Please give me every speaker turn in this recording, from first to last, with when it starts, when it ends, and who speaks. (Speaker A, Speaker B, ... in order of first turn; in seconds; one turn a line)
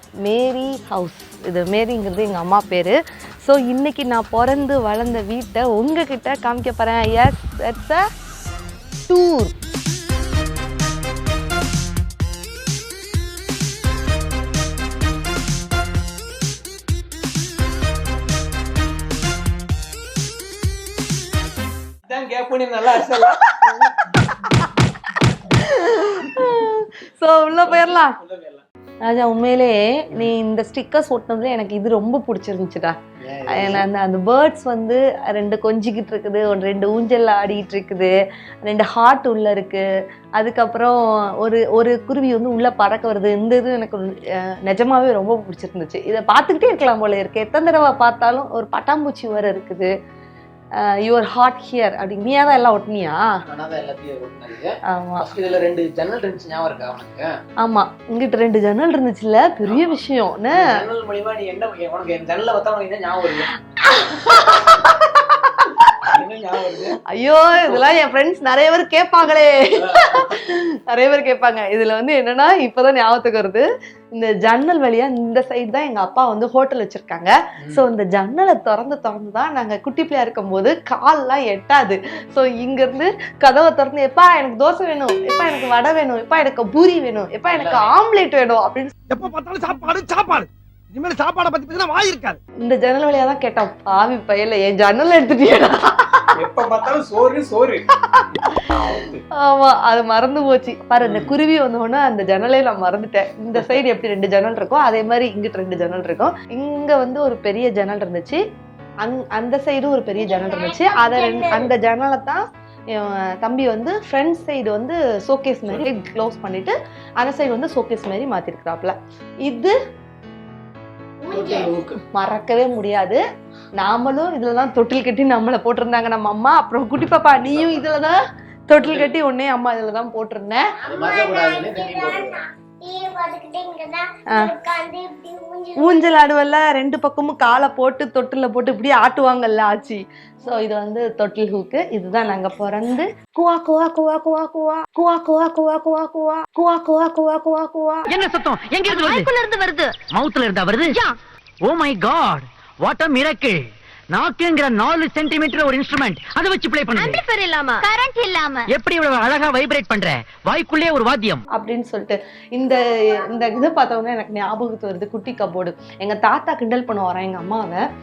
Speaker A: 0.2-8.0
Speaker A: 9.1-9.5
Speaker B: 22.1-23.9
Speaker A: 23.8-24.7
Speaker A: 25.5-28.2
Speaker B: 27.7-28.6
Speaker A: 29.0-33.0
Speaker B: 33.2-33.9
Speaker A: 33.5-38.1
Speaker A: 38.6-39.8
Speaker A: 40.4-49.9
Speaker A: 51.0-53.2
Speaker B: 53.5-57.3
Speaker A: 54.9-55.2
Speaker A: 57.6-60.7
Speaker B: 59.7-60.0
Speaker B: 60.5-63.5
Speaker A: 63.8-66.1
Speaker B: 66.0-67.0
Speaker A: 67.1-88.9
Speaker B: 69.8-70.3
Speaker B: 87.5-87.9
Speaker C: 89.1-92.4
Speaker A: 92.6-96.3
Speaker B: 96.4-97.8
Speaker A: 98.1-98.8
Speaker B: 98.8-99.2
Speaker A: 99.4-108.4
Speaker B: 101.0-101.3
Speaker A: 109.0-112.4
Speaker D: 110.1-111.7
Speaker A: 112.9-119.7
Speaker D: 121.2-121.7
Speaker B: 121.3-122.0
Speaker A: 122.1-123.2
Speaker A: 123.8-130.7
Speaker B: 127.5-127.9
Speaker B: 128.8-129.1
Speaker D: 130.8-136.1
Speaker B: 130.9-132.4
Speaker A: 135.8-148.1
Speaker E: 148.1-161.4
Speaker A: 161.6-167.8